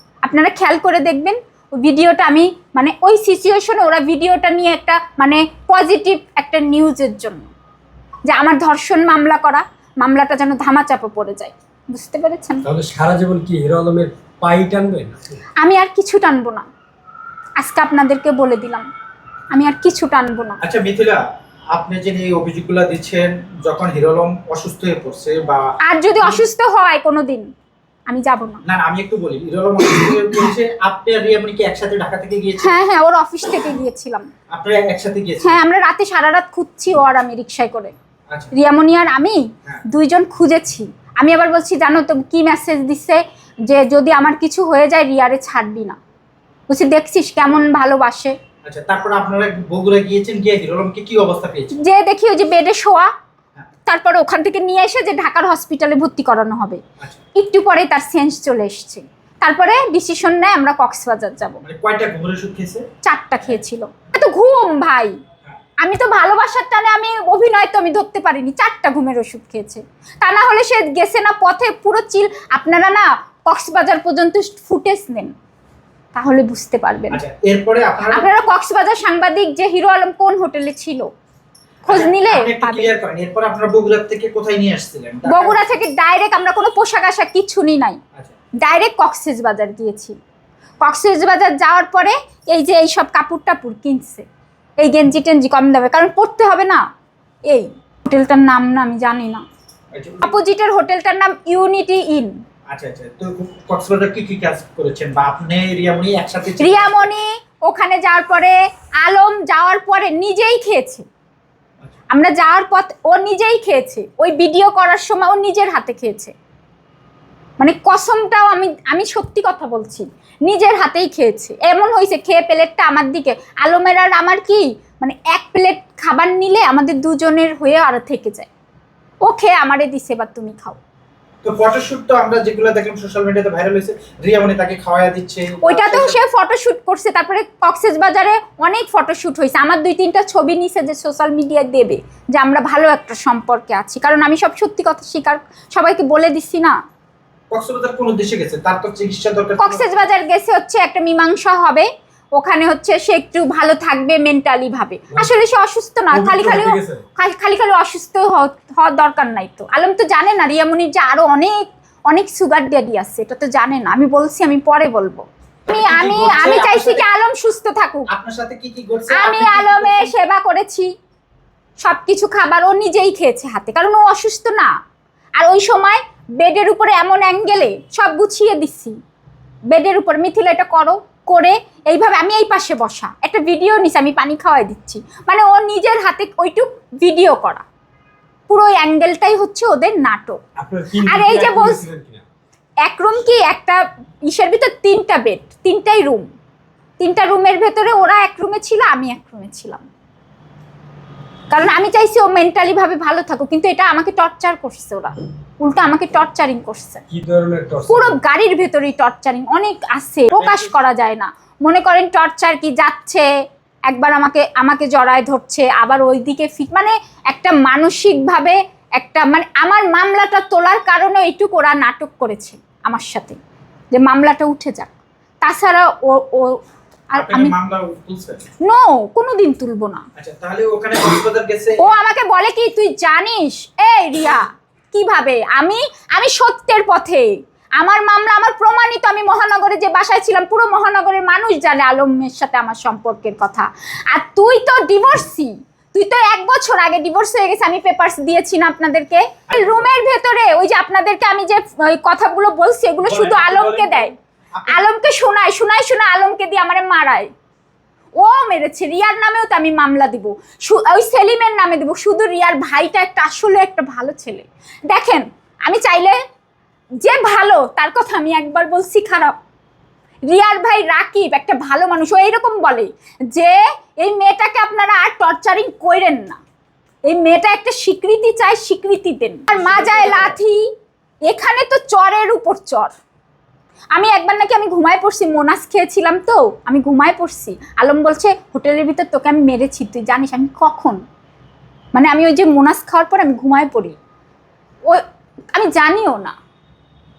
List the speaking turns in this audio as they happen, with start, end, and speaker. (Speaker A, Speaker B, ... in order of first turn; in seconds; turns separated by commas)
Speaker A: 0.2-7.5, Speaker A: 8.3-12.6, Speaker B: 12.6-15.2, Speaker A: 15.6-16.6, Speaker A: 17.6-18.9, Speaker A: 19.5-20.6, Speaker C: 20.6-26.4, Speaker A: 25.8-27.5, Speaker A: 28.1-28.6, Speaker C: 28.6-32.8, Speaker A: 32.6-34.3, Speaker C: 34.5-35.6, Speaker A: 35.4-37.9, Speaker A: 38.5-46.0, Speaker A: 46.7-48.3, Speaker C: 48.6-51.7, Speaker A: 51.8-53.1, Speaker A: 53.9-56.8, Speaker A: 57.3-61.6, Speaker C: 61.6-62.8, Speaker A: 63.0-65.2, Speaker A: 65.8-75.3, Speaker A: 76.1-77.2, Speaker C: 77.1-78.3, Speaker A: 78.1-81.1, Speaker A: 81.8-82.9, Speaker C: 81.9-85.6, Speaker A: 85.3-88.0, Speaker A: 88.6-90.2, Speaker A: 90.8-94.2, Speaker A: 94.8-96.8, Speaker A: 97.5-99.4, Speaker C: 99.9-100.3, Speaker A: 100.2-102.3, Speaker C: 102.7-107.1, Speaker A: 106.6-111.0, Speaker A: 112.1-116.3, Speaker A: 117.6-128.5, Speaker A: 129.2-130.8, Speaker C: 131.4-136.2, Speaker A: 135.6-146.8, Speaker C: 147.5-149.9, Speaker A: 149.6-168.1, Speaker B: 156.1-157.0, Speaker C: 165.7-167.1, Speaker C: 168.1-170.1, Speaker A: 169.1-170.9, Speaker A: 171.8-174.7, Speaker A: 175.4-178.9, Speaker A: 179.7-187.6, Speaker A: 188.5-190.4, Speaker B: 190.6-192.2, Speaker A: 191.1-191.8, Speaker A: 192.8-196.3, Speaker A: 197.0-199.8, Speaker A: 201.5-207.0, Speaker B: 207.1-208.2, Speaker A: 207.9-213.2, Speaker C: 210.3-210.8, Speaker A: 213.9-223.4, Speaker A: 223.9-224.9, Speaker A: 225.4-226.6, Speaker A: 227.1-227.5, Speaker C: 227.2-228.4, Speaker A: 228.6-230.0, Speaker C: 230.2-231.9, Speaker A: 231.8-254.1, Speaker C: 249.5-249.9, Speaker B: 253.1-254.0, Speaker C: 254.5-254.9, Speaker A: 254.7-257.3, Speaker A: 258.2-266.1, Speaker A: 267.0-269.3, Speaker A: 270.3-276.4, Speaker A: 277.1-280.6, Speaker C: 279.5-280.4, Speaker A: 281.2-282.9, Speaker A: 283.9-291.0, Speaker A: 291.9-294.0, Speaker A: 295.5-296.3